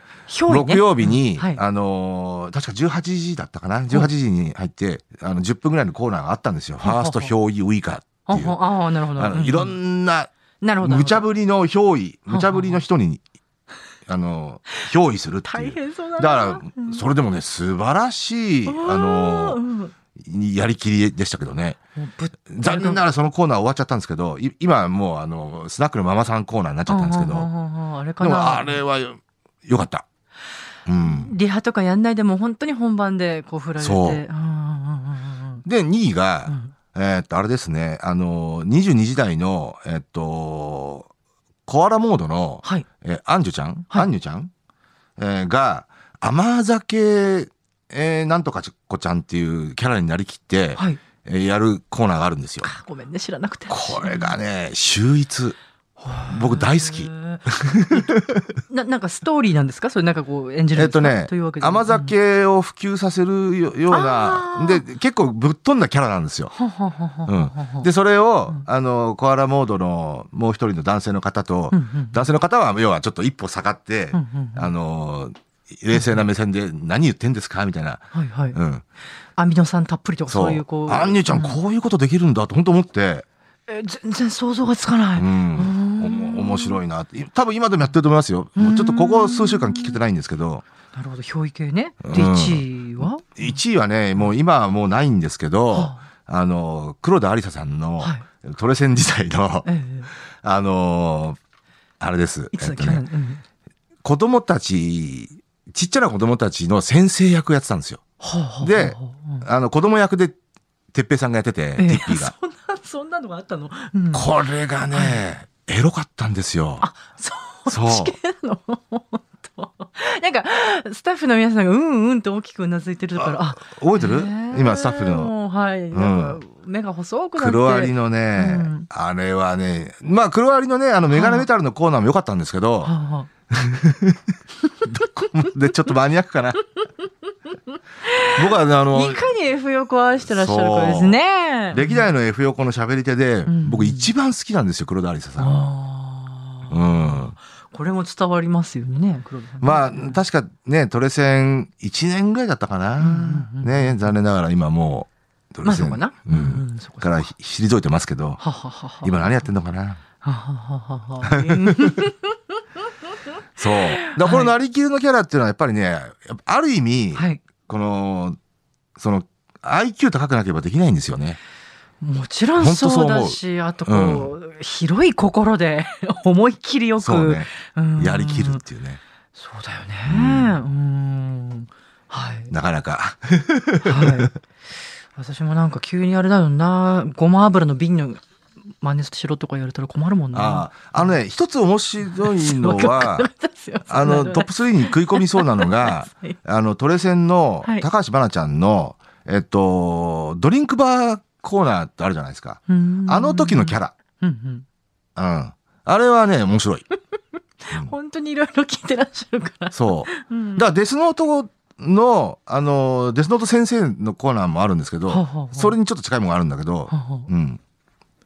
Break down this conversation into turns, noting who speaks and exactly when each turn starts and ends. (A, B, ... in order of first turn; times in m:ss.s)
0:00.3-0:01.6 A
0:00.5-0:08.6 B
0:06.8-0:07.3 A
0:08.3-0:09.7 A
0:09.1-0:10.3 B
0:10.6-0:11.2 A
0:10.8-0:13.2 B
0:12.3-0:12.8 A
0:14.1-0:19.6 B
0:15.5-0:17.0 A
0:18.6-0:19.9 A
0:20.2-0:21.8 B
0:22.0-0:23.0 A
0:22.5-0:27.5 B
0:26.9-0:28.8 A
0:28.2-0:30.0 B
0:30.8-0:31.3 B
0:31.0-0:35.6 A
0:33.8-0:34.2 B
0:35.6-0:41.1 B
0:36.5-0:36.7 A
0:41.7-0:44.5 B
0:45.2-0:52.7 B
0:52.6-0:54.4 A
0:53.7-0:55.6 B
0:56.0-0:58.2 A
0:56.2-0:58.4 B
0:58.7-1:02.1 A
1:00.7-1:06.5 B
1:03.9-1:04.8 A
1:06.5-1:07.9 A
1:07.2-1:18.8 B
1:11.7-1:12.3 A
1:14.1-1:14.7 A
1:18.1-1:18.6 A
1:19.4-1:21.6 A
1:20.3-1:23.2 B
1:23.7-1:26.8 A
1:25.2-1:30.6 B
1:28.6-1:30.0 A
1:30.9-1:33.6 A
1:32.0-1:39.7 B
1:35.7-1:36.0 A
1:39.6-1:40.1 A
1:40.4-1:41.4 B
1:42.0-1:43.0 B
1:42.5-1:43.4 A
1:44.0-1:48.0 B
1:48.2-1:49.4 A
1:48.6-1:50.4 B
1:50.9-1:52.3 B
1:51.8-1:54.3 A
1:54.1-1:56.9 B
1:54.9-1:55.2 A
1:56.8-2:08.9 A
1:57.7-1:58.1 B
2:03.2-2:05.3 B
2:05.9-2:06.4 B
2:07.4-2:12.9 B
2:11.1-2:11.5 A
2:12.8-2:13.3 A
2:13.5-2:14.2 B
2:14.8-2:16.6 B
2:17.7-2:22.1 A
2:18.3-2:19.3 B
2:20.2-2:21.2 B
2:21.7-2:25.7 B
2:23.5-2:24.1 A
2:25.4-2:30.2 A
2:26.7-2:27.3 B
2:29.6-2:38.4 B
2:33.0-2:34.1 A
2:35.6-2:37.3 A
2:38.4-2:39.4 A
2:39.0-2:40.0 B
2:40.2-2:42.4 A
2:41.2-2:42.0 B
2:43.6-2:48.4 B
2:43.6-2:44.5 A
2:47.1-2:47.4 A
2:49.0-2:51.4 B
2:52.0-2:58.6 A
2:52.6-2:54.3 B
2:57.0-2:59.0 B
2:59.3-3:02.5 A
3:00.0-3:00.6 B
3:02.5-3:04.2 B
3:03.8-3:04.3 A
3:05.2-3:08.2 A
3:08.8-3:11.1 A
3:10.3-3:13.3 B
3:12.1-3:16.4 A
3:13.9-3:23.9 B
3:22.7-3:24.6 A
3:25.2-3:26.8 B
3:27.6-3:30.6 A
3:29.7-3:37.6 B
3:35.1-3:35.8 A
3:36.9-3:37.3 A